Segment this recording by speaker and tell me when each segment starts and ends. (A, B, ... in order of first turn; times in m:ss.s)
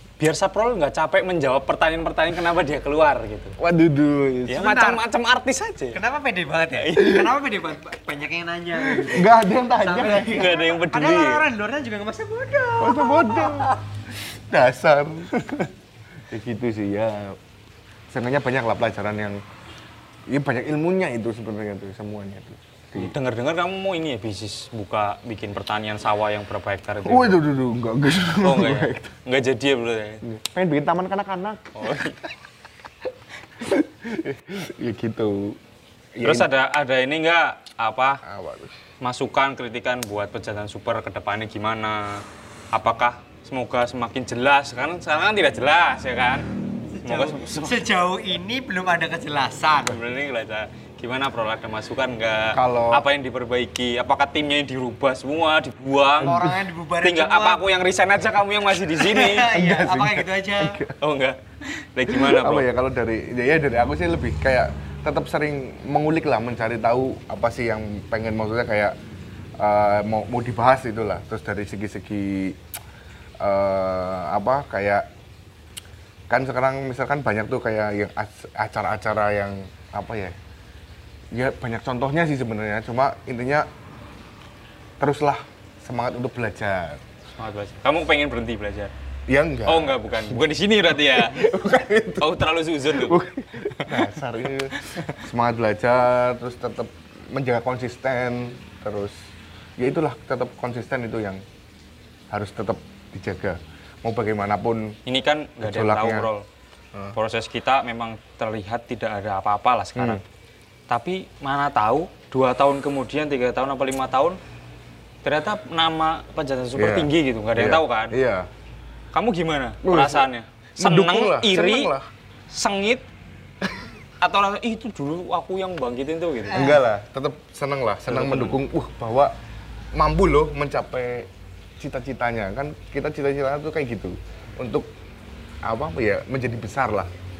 0:00.2-0:03.6 A
0:03.6-0:04.7 B
0:04.5-0:06.0 A
0:04.6-0:05.0 C
0:05.9-0:13.8 C
0:06.8-0:07.3 A
0:08.8-0:10.6 B
0:10.3-0:11.4 A
0:12.8-0:15.7 B
0:16.3-0:17.4 B
0:18.1-0:19.4 B
0:20.3-0:23.2 B
0:22.9-0:27.4 A
0:27.0-0:29.1 B
0:28.4-0:30.2 A
0:30.2-0:32.0 B
0:31.8-0:32.2 A
0:33.6-0:35.6 B
0:36.1-0:36.5 B
0:36.2-0:38.2 A
0:38.2-0:38.7 B
0:39.0-0:46.5 A
0:47.0-0:50.0 C
0:47.0-0:47.8 A
0:49.8-0:59.5 A
0:52.5-0:53.0 B
0:56.2-0:57.6 C
0:56.2-0:56.6 B
0:58.9-1:00.8 C
0:59.4-1:01.0 B
1:01.0-1:02.7 A
1:02.1-1:09.0 B
1:09.6-1:12.6 B
1:13.4-1:15.1 B
1:16.3-1:20.4 B
1:21.3-1:23.7 B
1:25.0-1:27.0 B
1:27.4-1:28.9 A
1:29.3-1:30.4 B
1:29.6-1:31.4 A
1:31.1-1:32.3 B
1:32.2-1:33.2 A
1:32.9-1:39.2 B
1:33.8-1:34.1 A
1:34.9-1:35.2 A
1:39.8-1:41.4 B
1:42.3-1:45.0 B
1:45.0-1:46.4 A
1:45.6-1:46.3 B
1:47.1-1:50.2 A
1:50.0-1:50.2 B
1:50.9-1:54.4 A
1:55.2-1:58.2 A
1:56.8-1:58.5 B
1:59.1-2:01.9 A
1:59.8-2:02.1 B
2:02.5-2:03.0 A
2:04.2-2:06.7 A
2:06.5-2:06.8 C
2:06.5-2:09.3 B
2:08.1-2:08.6 A
2:09.9-2:14.9 B
2:15.6-2:17.1 B